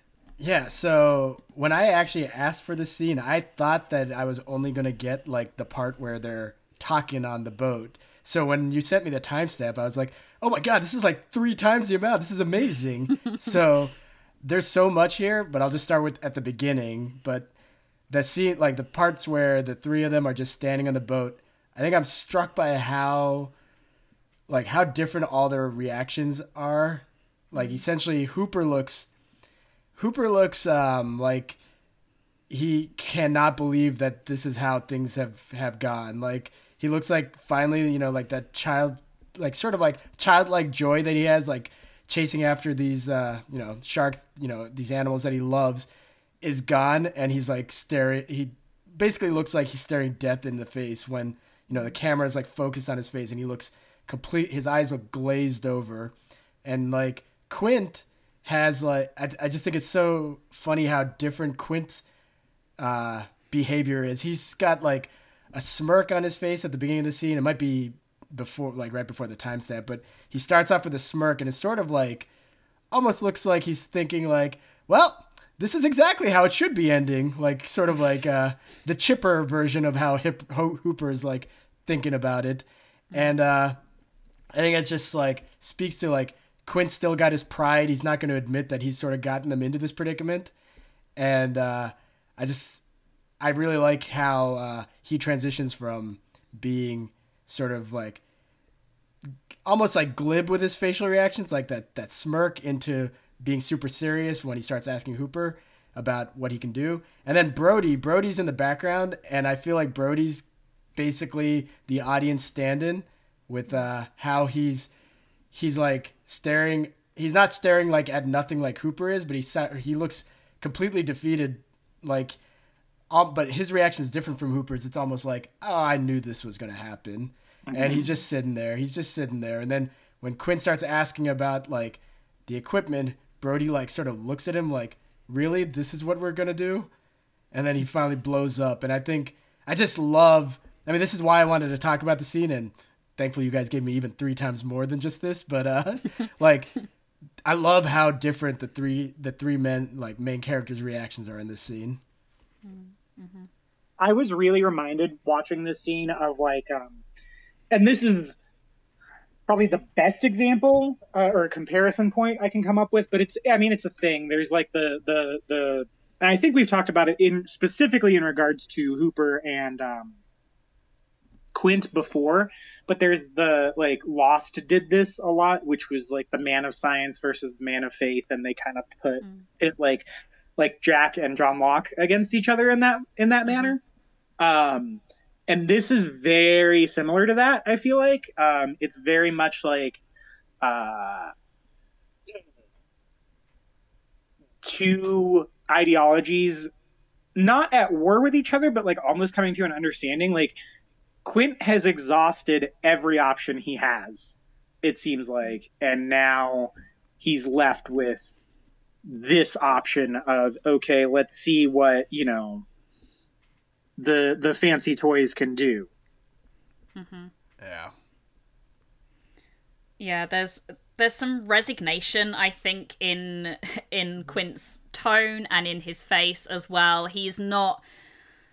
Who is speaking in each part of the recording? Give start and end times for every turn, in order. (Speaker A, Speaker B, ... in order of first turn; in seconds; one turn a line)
Speaker A: 0.4-17.5
Speaker A: 18.1-23.5
Speaker A: 24.5-29.1
Speaker B: 27.6-27.8
Speaker A: 30.0-31.6
Speaker A: 32.5-45.9
Speaker A: 46.4-56.1
Speaker A: 56.6-62.0
Speaker A: 62.8-72.3
Speaker A: 72.9-83.8
Speaker B: 83.1-83.4
Speaker A: 84.5-90.5
Speaker A: 91.2-92.8
Speaker A: 93.4-98.2
Speaker A: 99.7-110.4
Speaker A: 111.0-114.9
Speaker A: 115.5-122.4
Speaker A: 123.1-136.9
Speaker C: 127.7-128.0
Speaker A: 137.5-146.7
Speaker A: 147.4-152.0
Speaker B: 152.7-153.5
Speaker C: 154.0-157.0
Speaker C: 157.7-158.4
Speaker C: 159.5-170.2
Speaker C: 171.5-180.1
Speaker C: 180.6-183.8
Speaker B: 183.5-183.8
Speaker C: 184.4-190.0
Speaker C: 190.6-191.3
Speaker C: 194.6-196.7
Speaker C: 197.4-200.6
Speaker C: 201.2-208.2
Speaker C: 209.1-212.7
Speaker C: 214.0-215.9
Speaker B: 217.0-217.3
Speaker A: 217.6-217.9
Speaker B: 220.0-227.8